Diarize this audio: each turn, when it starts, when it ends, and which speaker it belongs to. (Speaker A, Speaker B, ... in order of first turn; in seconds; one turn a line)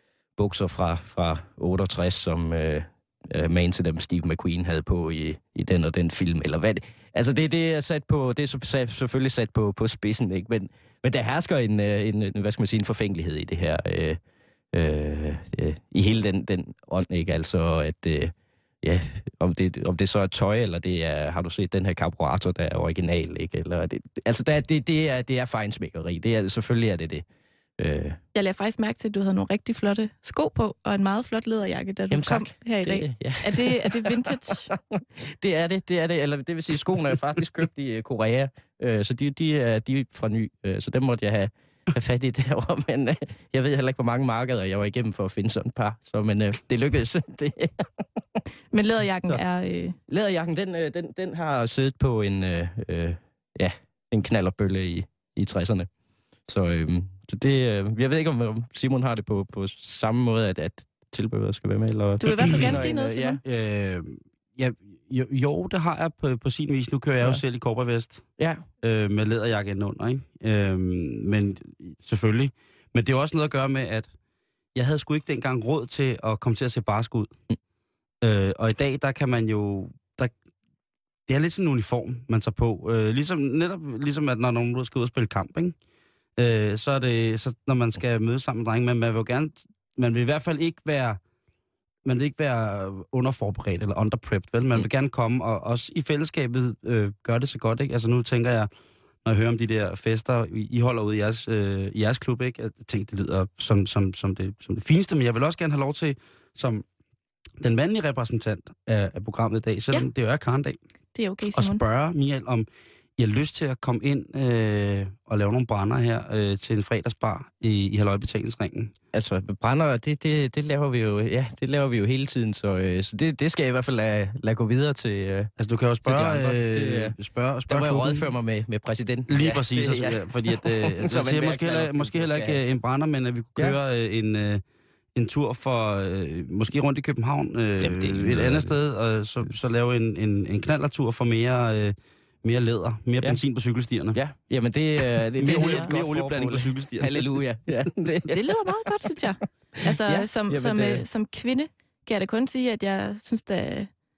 Speaker A: 0.4-14.2
Speaker A: 14.7-27.2
Speaker A: 27.8-28.2
Speaker B: 28.3-34.7
Speaker A: 32.1-48.2
Speaker B: 48.7-50.0
Speaker A: 50.1-55.9
Speaker A: 56.5-63.4
Speaker B: 62.2-63.4
Speaker C: 62.5-62.9
Speaker C: 63.4-68.3
Speaker A: 68.4-68.7
Speaker C: 68.8-74.1
Speaker C: 74.7-77.3
Speaker C: 78.2-80.3
Speaker C: 81.3-85.8
Speaker C: 86.4-91.2
Speaker C: 92.0-98.7
Speaker C: 99.2-106.9
Speaker C: 107.6-110.8
Speaker B: 111.2-111.8
Speaker C: 111.5-118.9
Speaker A: 119.1-125.5
Speaker C: 125.6-128.3
Speaker A: 126.0-127.2
Speaker A: 127.7-132.6
Speaker C: 129.3-134.6
Speaker C: 135.2-144.2
Speaker A: 137.8-138.8
Speaker A: 144.1-148.4
Speaker C: 145.4-147.3
Speaker B: 148.3-153.9
Speaker A: 149.8-151.0